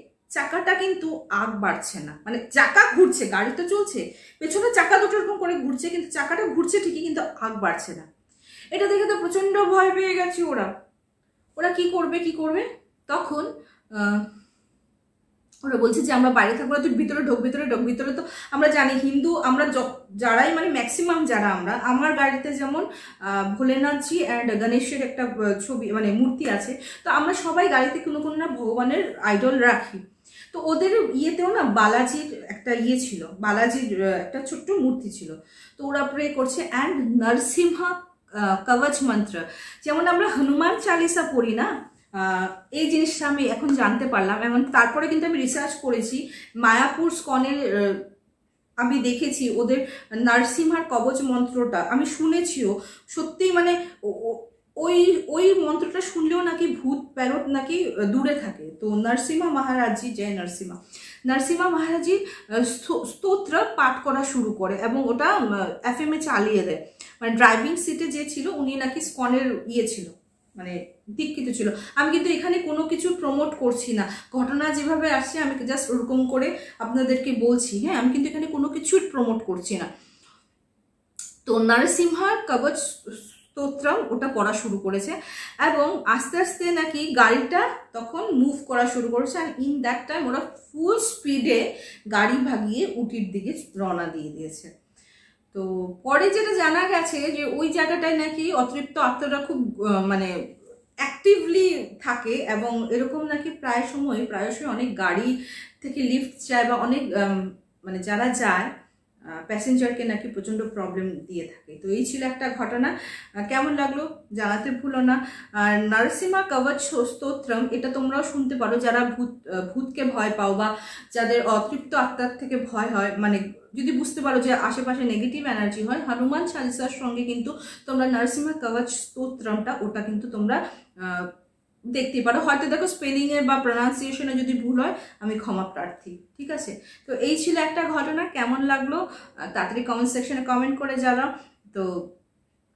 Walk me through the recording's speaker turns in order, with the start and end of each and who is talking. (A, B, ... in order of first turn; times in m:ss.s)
0:00.4-0:08.1 A
0:08.7-0:10.7 A
0:11.6-0:14.2 A
0:15.7-0:30.0 A
0:30.5-0:48.0 A
0:48.8-1:19.9 A
1:21.5-1:31.6 A
1:32.1-1:34.7 A
1:35.5-1:40.3 A
1:41.0-1:48.7 A
1:49.3-2:11.3 A
2:12.0-2:19.0 A
2:19.5-2:21.9 A